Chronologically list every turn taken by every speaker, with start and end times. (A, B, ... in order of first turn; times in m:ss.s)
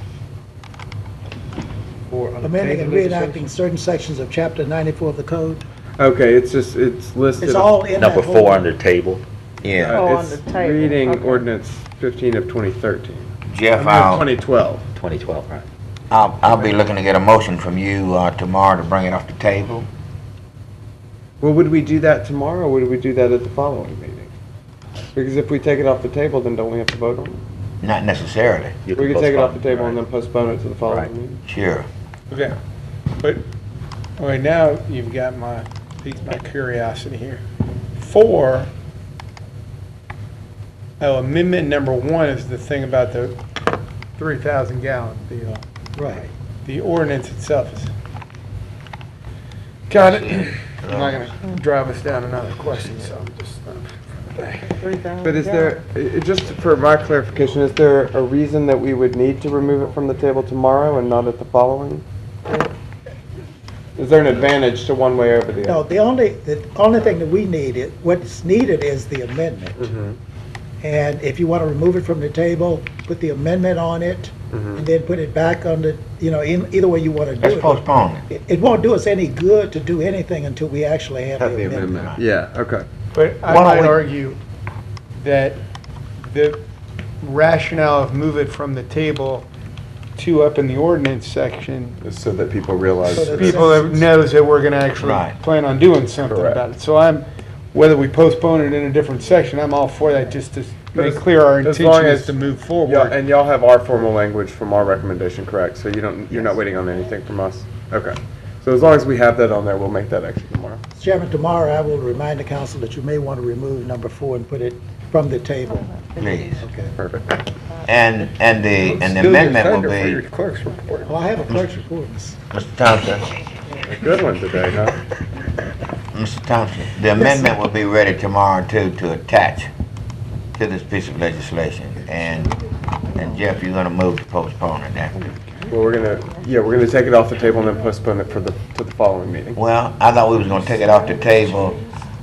0:02.1-0:03.4 A
0:02.4-0:05.6 B
0:06.0-0:07.8 A
0:07.4-0:08.7 B
0:07.9-0:09.2 C
0:09.6-0:10.0 D
0:09.7-0:14.9 A
0:09.9-0:11.5 E
0:13.5-0:14.3 D
0:15.0-0:15.7 C
0:16.1-0:19.9 D
0:21.4-0:24.3 A
0:25.1-0:27.4 A
0:27.8-0:28.8 D
0:28.8-0:30.0 C
0:28.9-0:31.4 A
0:30.8-0:31.1 C
0:31.5-0:31.9 D
0:32.3-0:32.6 F
0:34.2-0:37.4 F
0:38.0-0:38.7 F
0:41.0-0:43.4 F
0:44.2-0:45.6 F
0:46.0-0:46.3 B
0:46.6-0:47.9 F
0:49.9-0:54.7 F
0:50.0-0:51.3 D
0:54.7-0:55.8 E
0:55.2-1:02.6 A
1:04.0-1:05.8 A
1:05.6-1:09.9 B
1:09.8-1:10.2 A
1:10.8-1:21.9 B
1:14.5-1:14.9 A
1:17.4-1:18.2 D
1:21.4-1:22.9 A
1:21.8-1:22.2 D
1:23.2-1:24.4 F
1:23.5-1:24.0 D
1:25.2-1:25.6 F
1:26.2-1:26.6 F
1:27.2-1:29.5 F
1:30.2-1:32.0 F
1:32.0-1:33.6 A
1:33.1-1:34.1 B
1:33.2-1:43.2 F
1:35.0-1:35.4 D
1:36.2-1:36.6 A
1:40.9-1:50.8 A
1:51.0-1:55.9 B
1:55.8-1:56.5 E
1:56.2-1:56.6 D
1:56.6-1:56.9 B
1:57.0-1:57.4 A
1:57.8-2:00.2 D
1:58.9-2:01.1 F
2:01.0-2:02.4 B
2:02.5-2:03.3 D
2:03.8-2:05.0 A
2:06.1-2:09.7 D
2:07.2-2:07.5 B
2:10.6-2:12.6 D
2:13.1-2:15.2 D
2:15.2-2:15.7 F
2:15.7-2:19.6 A
2:19.6-2:21.8 D